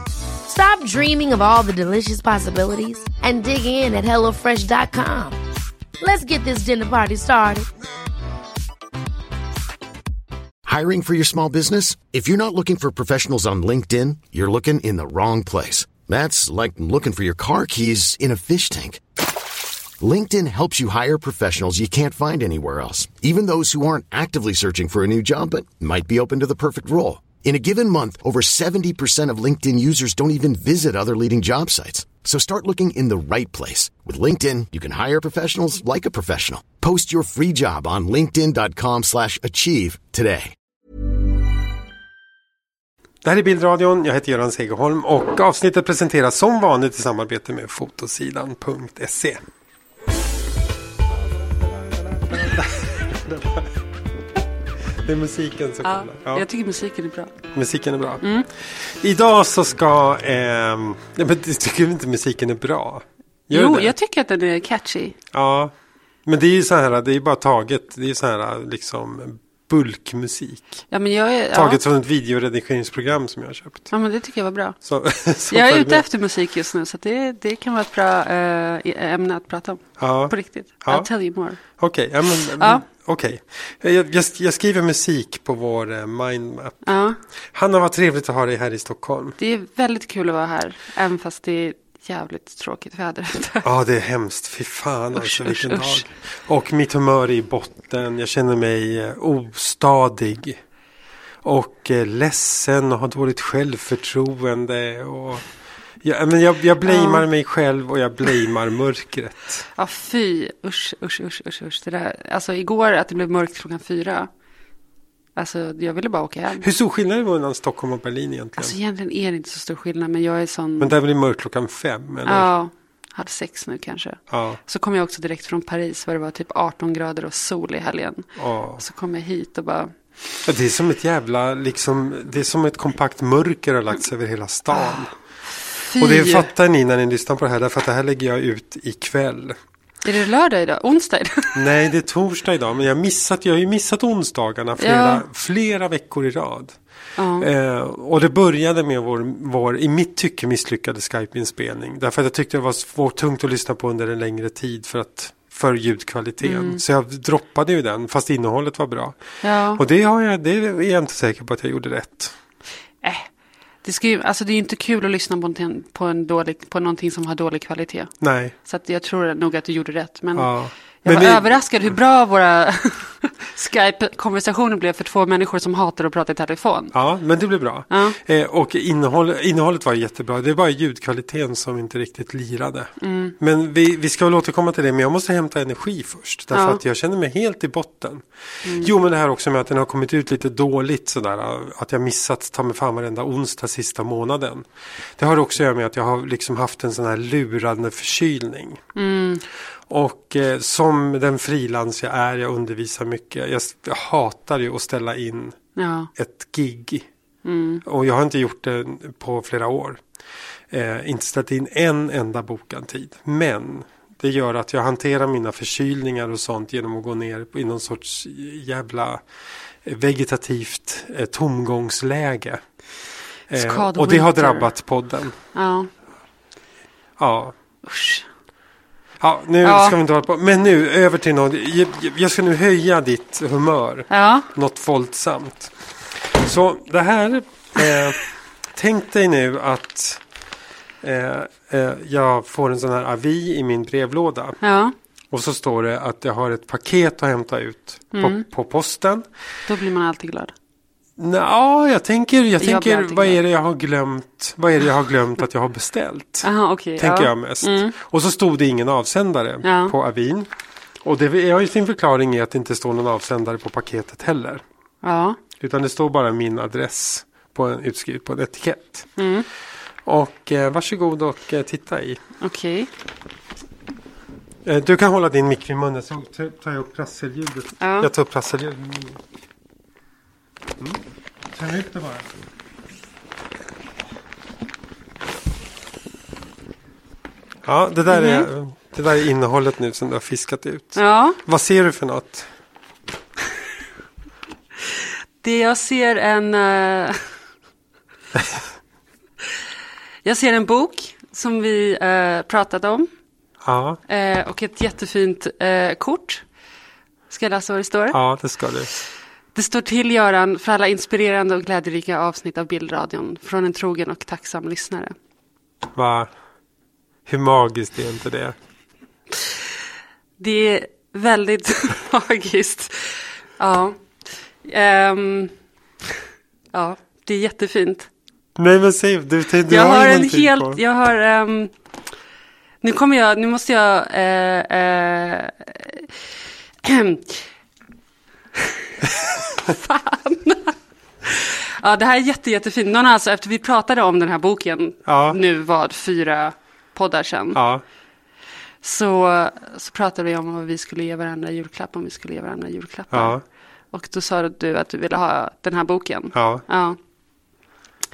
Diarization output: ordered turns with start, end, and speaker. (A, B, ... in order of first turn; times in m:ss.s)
0:00.5-0:05.4 A
0:06.0-0:07.7 A
0:10.7-0:19.0 B
0:20.0-0:40.5 B
0:43.2-0:49.4 C
0:51.4-0:53.7 C
0:55.0-0:56.5 C
0:55.8-0:57.4 D
0:57.5-1:04.0 C
0:58.2-0:58.5 D
1:03.5-1:05.2 D
1:05.3-1:05.7 C
1:06.3-1:10.8 C
1:10.9-1:11.8 D
1:11.5-1:13.9 C
1:13.9-1:14.8 D
1:14.8-1:16.0 C
1:15.5-1:21.6 D
1:20.0-1:21.1 C
1:21.7-1:26.8 C
1:22.6-1:22.8 D
1:26.8-1:27.2 D
1:27.5-1:29.4 C
1:29.4-1:33.7 D
1:33.6-1:40.6 C
1:35.2-1:36.1 D
1:41.4-1:45.4 C
1:46.0-1:49.7 C
1:46.8-1:47.2 D
1:49.8-1:54.3 D
1:55.4-1:56.7 D
1:56.6-1:58.8 C
1:58.6-2:01.0 D
2:00.8-2:02.5 C
2:02.2-2:09.9 D
2:04.3-2:04.6 C
2:08.4-2:08.8 C
2:10.4-2:15.1 C
2:14.7-2:15.1 D
2:15.8-2:16.5 D
2:16.0-2:19.6 C
2:20.0-2:21.6 D
2:21.6-2:26.8 C
2:24.8-2:25.2 D
2:27.2-2:27.5 D
2:27.4-2:39.2 C
2:36.4-2:36.8 D
2:39.4-2:39.8 D
2:39.8-2:42.4 C
2:43.0-2:43.3 D
2:43.8-2:48.1 D
2:48.2-2:48.6 C
2:48.6-2:56.9 D
2:50.4-2:51.6 C
2:56.9-3:08.2 C
2:57.9-2:58.2 D
3:03.0-3:03.4 D
3:06.5-3:06.8 D
3:08.6-3:08.9 D
3:08.8-3:14.7 C
3:15.2-3:18.8 C
3:19.0-3:19.4 D
3:19.9-3:25.6 C
3:25.8-3:26.1 D
3:26.2-3:27.1 C
3:27.4-3:27.8 D
3:27.8-3:30.0 C
3:30.7-3:39.2 C
3:39.8-3:42.6 C
3:43.5-3:45.4 C
3:43.6-3:44.7 D
3:45.5-3:45.9 D
3:47.2-3:47.6 C
3:47.8-3:48.3 D
3:49.2-3:58.2 C
3:49.6-3:50.0 D
3:54.1-3:54.5 D
3:58.8-4:00.2 C
4:01.0-4:04.6 C
4:04.6-4:04.9 D
4:05.3-4:09.3 C
4:08.1-4:08.4 D
4:09.7-4:10.5 D
4:11.2-4:20.5 C
4:12.6-4:13.4 D
4:16.4-4:18.0 D
4:19.6-4:20.0 D
4:21.0-4:24.6 C
4:25.0-4:25.4 D
4:25.6-4:29.1 C
4:29.2-4:29.5 D
4:30.1-4:32.2 C
4:32.4-4:32.9 D
4:34.6-4:39.2 C
4:37.8-4:38.1 D
4:41.5-4:42.3 C
4:47.6-4:52.5 C
4:48.1-4:48.5 D
4:51.0-4:51.4 D
4:55.4-4:57.3 D
5:00.2-5:03.1 D
5:03.6-5:04.0 C
5:04.1-5:06.4 D
5:07.3-5:08.2 D
5:08.1-5:08.9 C
5:09.6-5:15.1 D
5:15.9-5:16.3 C
5:17.3-5:18.6 C
5:20.4-5:24.0 D
5:24.6-5:25.5 D
5:26.7-5:28.1 D
5:28.6-5:30.8 C
5:29.7-5:31.7 D
5:32.8-5:36.1 D
5:36.8-5:37.4 D
5:39.0-5:47.6 D
5:45.1-5:45.4 C
5:47.5-5:47.8 C
5:48.8-5:53.4 D
5:53.1-5:53.4 C
5:53.9-5:57.0 D
5:56.3-5:56.6 C